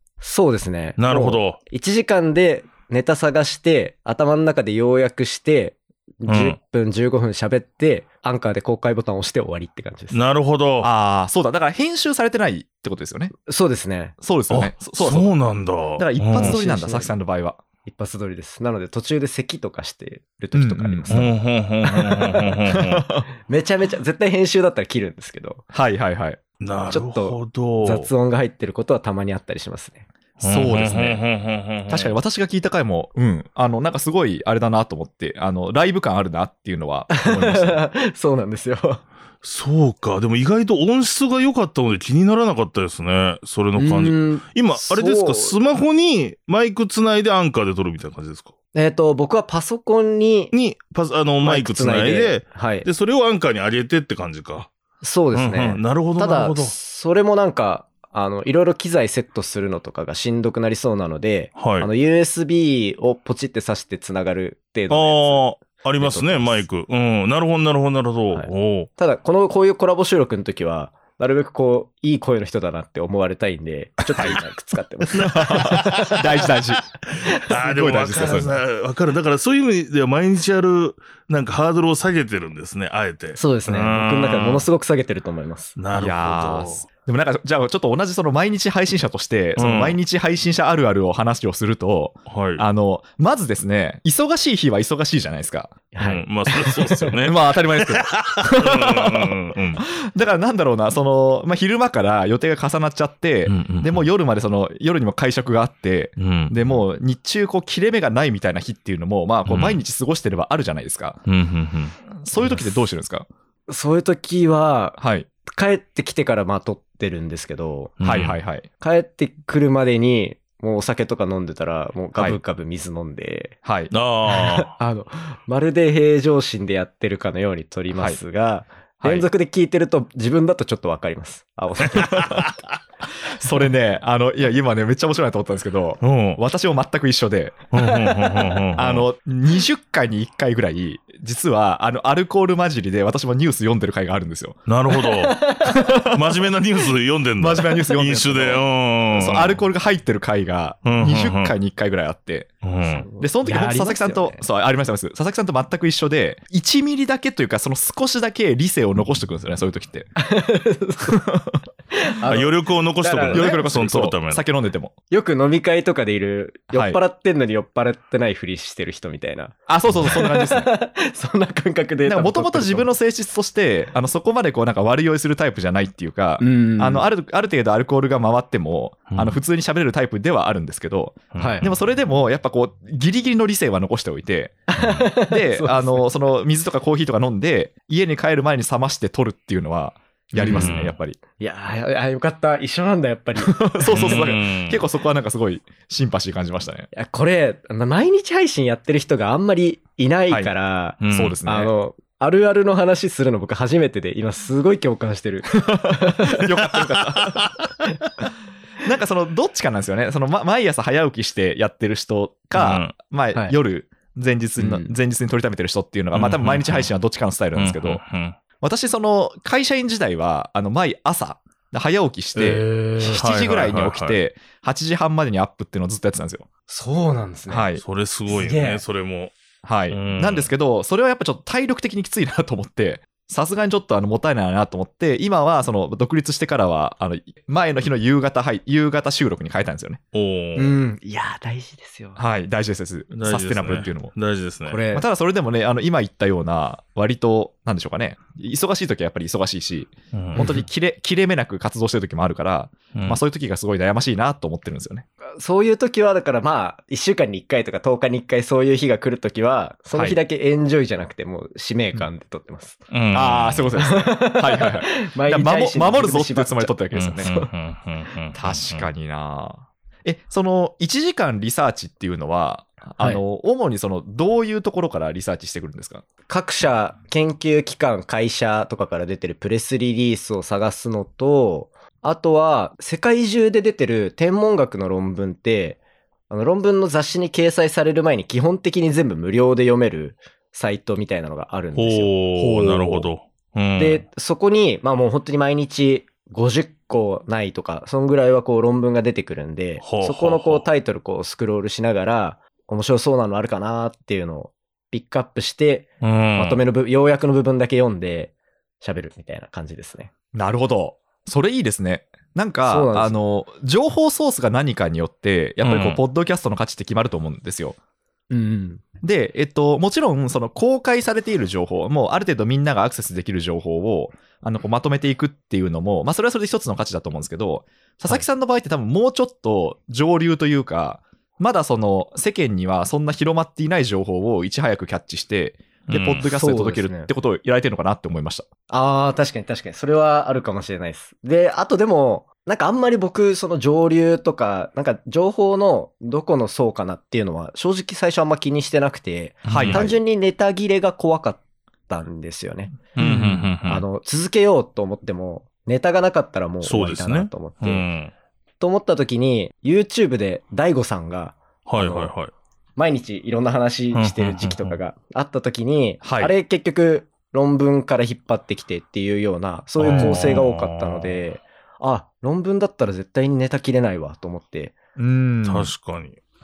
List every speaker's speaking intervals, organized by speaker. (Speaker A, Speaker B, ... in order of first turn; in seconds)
Speaker A: 0.2-10.2, 13.4-14.2, 16.4-17.1, 17.9-21.3, 23.5-25.6, 26.9-30.1, 37.1-39.0, 43.8-45.6, 48.7-50.5, 51.4-52.9, 55.0-66.6, 68.3-76.3, 77.2-78.5, 83.4-85.8, 95.9-97.2, 112.4-112.7, 113.7-118.0, 118.8-123.5, 124.3-132.3, 145.1-145.8, 152.9-154.4, 160.2-161.2, 161.9-163.6, 165.1-172.9, 176.4-177.1, 181.4-181.7, 184.7-186.1, 190.4-190.8, 191.4-194.3, 196.9-206.5, 214.6-214.9, 222.4-223.3, 226.7-227.7, 228.3-228.8, 240.6-242.2, 244.7-245.1, 250.4-250.7, 255.4-262.8, 263.8-267.5, 276.3-292.1, 293.8-310.1, 312.7-313.2, 318.3-318.8, 336.2-337.1, 338.7-357.9, 358.6-362.1, 362.8-374.8
Speaker B: 1.0-1.6, 6.3-6.6, 10.1-10.9, 14.5-16.6, 21.1-23.0, 26.6-28.1, 30.4-32.2, 39.4-48.5, 50.5-54.7, 55.3-56.7, 61.6-61.9, 64.9-68.9, 75.2-76.2, 77.1-84.7, 85.8-86.8, 89.6-90.0, 92.3-92.6, 96.0-99.8, 103.5-104.0, 106.2-106.5, 109.5-109.8, 111.3-112.0, 118.0-118.4, 123.9-124.7, 132.1-132.5, 136.0-136.4, 137.7-139.1, 144.7-145.4, 146.1-149.6, 150.8-151.5, 152.6-153.1, 162.3-164.4, 179.1-179.4, 181.3-181.6, 190.5-191.0, 193.9-194.8, 201.0-201.4, 207.2-207.5, 212.5-212.9, 216.1-216.9, 217.6-218.4, 223.1-224.2, 227.8-229.3, 229.9-230.5, 240.1-240.8, 243.1-244.8, 250.1-250.4, 252.9-253.2, 262.9-263.7, 266.9-268.9, 291.8-294.0, 299.8-300.7, 306.0-306.6, 315.6-316.0, 335.9-336.2, 349.4-349.9, 353.0-353.8, 356.6-358.1, 361.7-362.3, 363.9-364.8, 369.8-371.2, 375.4-376.2
Speaker C: 10.8-13.3, 14.2-15.3, 16.0-17.6, 20.5-21.3, 21.9-23.3, 25.7-26.4, 30.4-31.2, 31.9-37.8, 75.2-76.9, 77.5-78.6, 85.9-95.9, 97.2-111.2, 112.1-113.3, 115.0-115.3, 118.0-118.7, 123.7-123.9, 127.9-128.2, 129.0-129.3, 132.1-132.4, 133.3-137.7, 138.8-144.6, 145.6-146.4, 147.4-152.6, 153.2-160.1, 161.1-161.6, 163.3-164.9, 166.7-167.0, 169.7-170.7, 172.1-191.2, 193.4-196.9, 201.0-201.7, 205.6-207.6, 208.8-218.0, 218.6-226.5, 227.5-227.8, 229.6-240.0, 242.2-244.1, 244.9-255.1, 259.9-260.2, 263.1-267.4, 268.3-276.1, 292.4-293.1, 310.3-317.8, 319.0-338.5, 349.5-350.0, 353.0-353.5, 366.0-366.3, 375.0-375.7